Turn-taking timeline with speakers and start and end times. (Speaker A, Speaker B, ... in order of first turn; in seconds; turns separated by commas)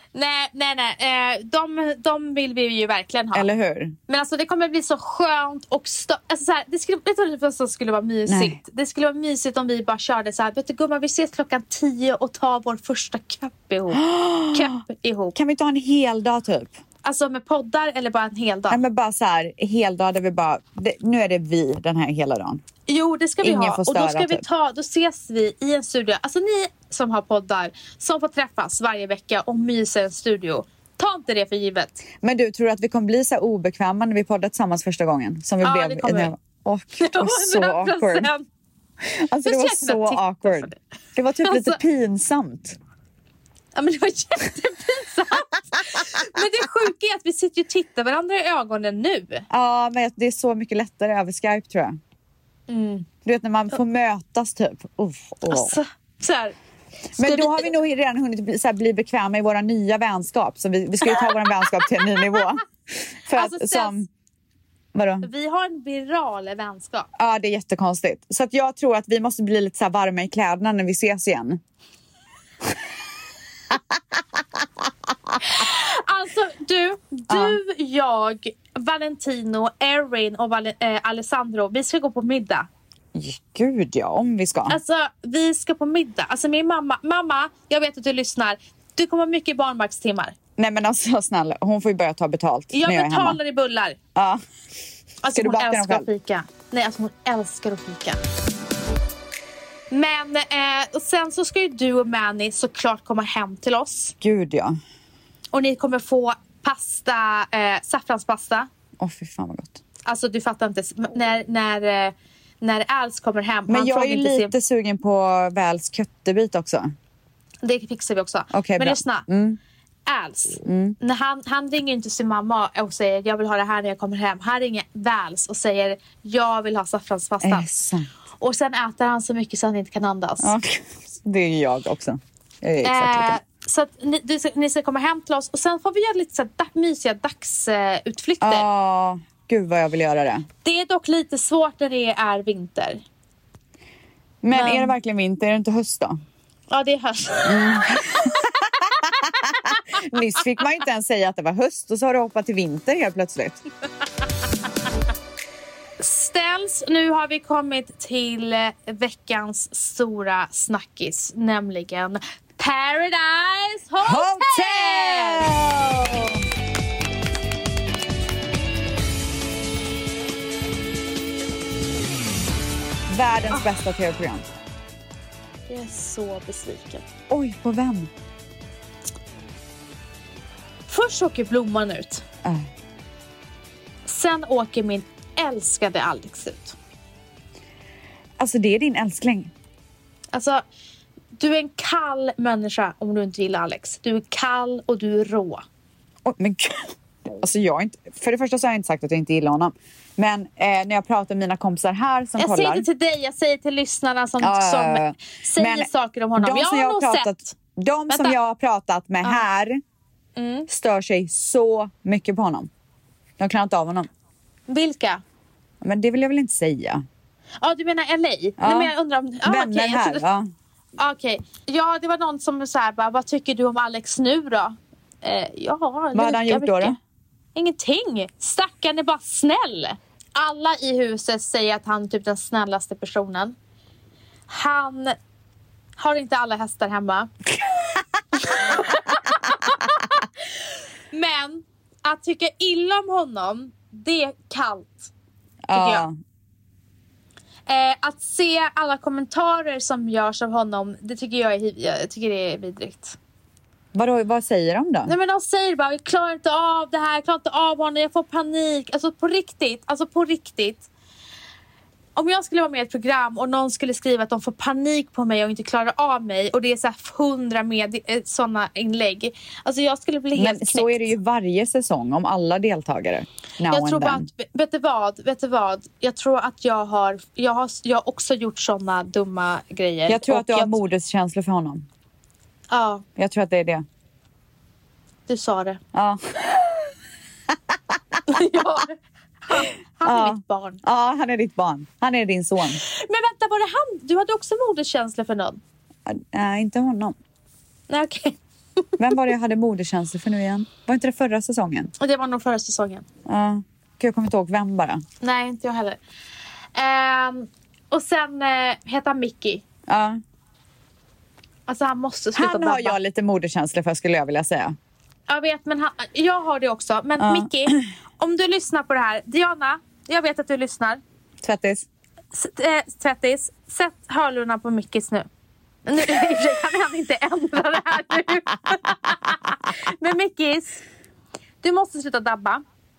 Speaker A: 0.1-3.5, Speaker B: 3.3-4.0, Speaker A: 4.1-15.4, Speaker B: 8.3-8.6, Speaker B: 13.9-14.8, Speaker B: 15.3-16.8, Speaker A: 17.0-18.8, Speaker B: 18.7-22.6, Speaker A: 22.9-32.0, Speaker B: 23.4-24.4, Speaker B: 32.2-38.3, Speaker A: 35.6-36.3, Speaker A: 37.0-38.5, Speaker B: 39.0-42.8, Speaker A: 39.4-40.8, Speaker A: 41.4-41.8, Speaker A: 43.8-49.5, Speaker B: 49.5-52.0, Speaker A: 52.7-53.1, Speaker B: 53.2-55.8, Speaker A: 55.5-56.5, Speaker A: 57.2-57.7, Speaker B: 57.2-64.1, Speaker A: 61.1-62.2, Speaker A: 63.3-64.0, Speaker B: 64.9-65.3, Speaker A: 65.2-67.1, Speaker B: 67.2-71.6, Speaker A: 75.4-82.7, Speaker B: 77.3-77.6, Speaker B: 83.1-84.8, Speaker A: 84.7-90.3, Speaker B: 90.6-93.4, Speaker A: 92.7-94.0, Speaker B: 94.2-94.4, Speaker A: 95.2-98.2, Speaker B: 95.3-96.1, Speaker A: 99.9-104.1, Speaker B: 104.2-104.8, Speaker A: 105.5-108.7, Speaker B: 109.0-109.8, Speaker A: 110.1-114.5, Speaker B: 113.7-116.9, Speaker A: 117.6-119.3, Speaker B: 118.5-119.6, Speaker A: 120.1-127.7, Speaker B: 120.7-121.0, Speaker B: 127.4-128.1, Speaker A: 128.4-130.6, Speaker B: 130.4-133.4, Speaker A: 132.8-138.7, Speaker B: 138.4-140.5, Speaker A: 140.6-143.0, Speaker B: 144.4-146.2, Speaker A: 144.5-144.9, Speaker A: 146.7-148.4, Speaker B: 147.4-153.6, Speaker A: 156.0-165.5, Speaker B: 164.0-166.4, Speaker B: 173.1-174.5, Speaker A: 175.7-177.1, Speaker B: 177.3-178.1, Speaker A: 180.9-182.2, Speaker A: 184.1-186.8, Speaker B: 188.4-189.5, Speaker A: 190.3-190.6, Speaker A: 191.4-195.6, Speaker B: 196.2-202.9, Speaker A: 202.4-207.5, Speaker B: 204.4-209.8, Speaker A: 208.1-208.4, Speaker A: 210.4-210.7, Speaker B: 210.7-212.7, Speaker B: 213.4-214.1, Speaker A: 214.7-215.2, Speaker B: 215.8-217.1, Speaker A: 217.6-220.2, Speaker B: 218.6-218.9, Speaker B: 219.4-220.5, Speaker A: 221.0-227.0, Speaker B: 226.1-227.0, Speaker A: 227.6-233.6, Speaker A: 234.5-235.2, Speaker A: 236.0-237.3, Speaker A: 238.4-240.4, Speaker A: 241.1-245.1, Speaker B: 245.7-246.2, Speaker A: 245.7-246.1, Speaker A: 247.7-253.2, Speaker B: 253.9-255.1, Speaker A: 255.1-260.9, Speaker A: 262.2-271.1, Speaker B: 270.4-274.3, Speaker A: 273.7-280.8, Speaker B: 280.1-281.9, Speaker A: 282.7-283.1, Speaker B: 283.2-283.9, Speaker A: 285.3-285.8, Speaker B: 285.9-286.8, Speaker A: 288.3-290.8, Speaker B: 290.0-292.8, Speaker A: 292.8-295.6, Speaker B: 296.1-297.1, Speaker A: 297.9-298.9, Speaker B: 299.0-301.9, Speaker A: 302.0-303.1, Speaker B: 303.3-305.0, Speaker A: 305.2-306.0, Speaker A: 306.8-309.6, Speaker B: 309.9-310.2, Speaker A: 311.7-313.0, Speaker B: 312.4-314.8, Speaker A: 315.3-321.0, Speaker B: 317.2-317.8, Speaker B: 321.4-321.9, Speaker A: 322.3-325.3, Speaker A: 325.9-330.8, Speaker A: 331.6-332.6